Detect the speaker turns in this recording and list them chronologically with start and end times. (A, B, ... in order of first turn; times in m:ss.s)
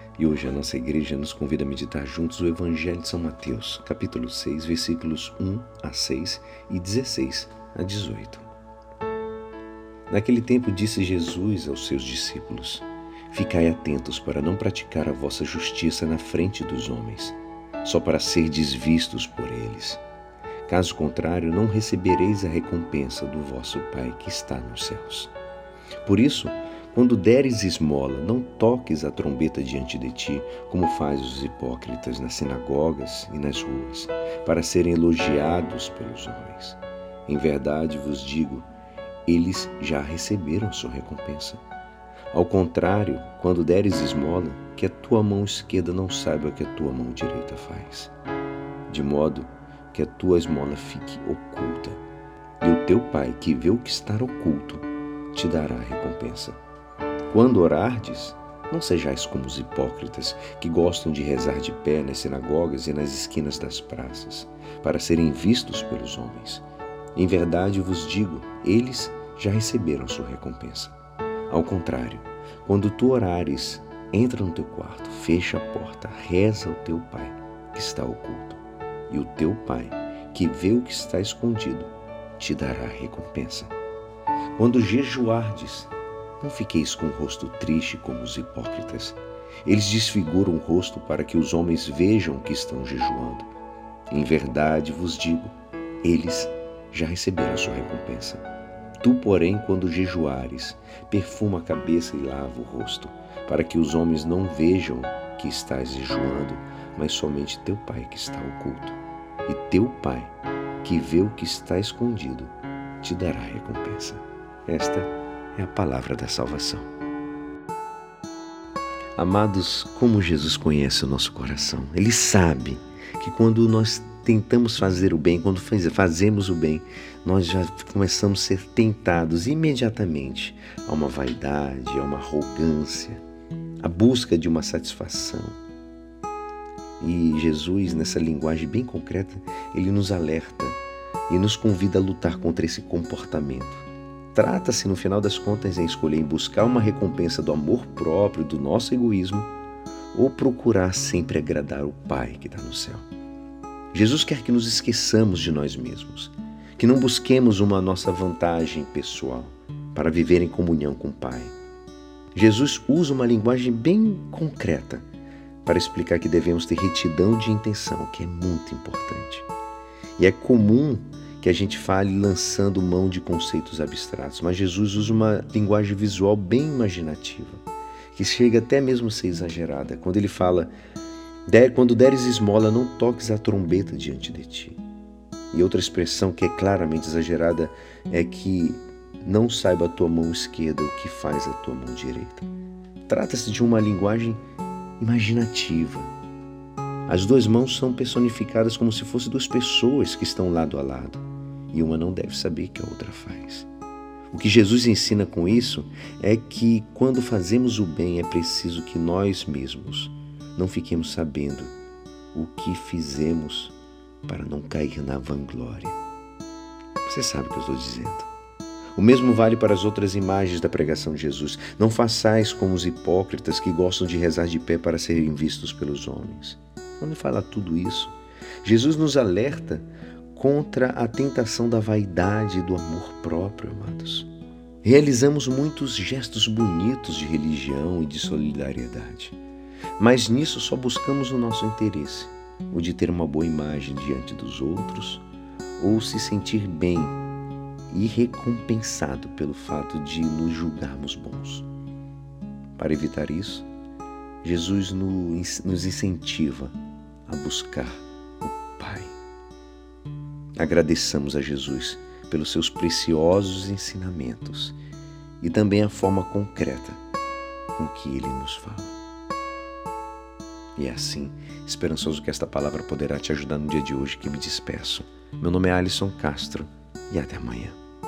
0:00.2-0:08.5 A
0:10.1-0:20.0 A
0:20.7-0:25.3 A
0:26.0-0:38.7 A
0:39.2-0:41.6 A
0:42.3-0:48.1 A
0:48.9-0:52.0 A
0:52.6-0:56.6 A
0:57.3-1:06.6 A
1:07.2-1:10.9 A
1:11.5-1:23.7 A
1:24.6-1:33.5 A
1:34.1-1:38.4 A
1:39.0-1:56.9 A
1:59.2-2:13.2 A
2:13.8-2:15.6 A
2:17.0-2:29.5 A
2:30.1-2:33.0 A
2:33.9-2:41.5 A
2:42.3-2:45.0 A
2:45.6-2:49.5 A
2:50.2-3:00.7 A
3:01.5-3:04.8 A
3:05.5-3:12.5 A
3:13.1-3:14.4 A
3:15.0-3:16.1 A
3:17.1-3:23.7 A
3:24.3-3:31.7 A
3:32.3-3:33.7 A
3:34.2-3:36.0 A
3:37.0-3:38.3 A
3:38.9-3:54.3 A
3:54.8-3:59.4 A
4:00.0-4:05.2 A
4:05.8-4:07.2 A
4:07.9-4:11.6 A
4:12.8-4:13.7 A
4:14.4-4:16.8 A
4:17.3-4:19.1 A
4:20.6-4:24.8 A
4:25.4-4:27.0 A
4:27.8-4:29.0 A
4:30.8-4:37.8 A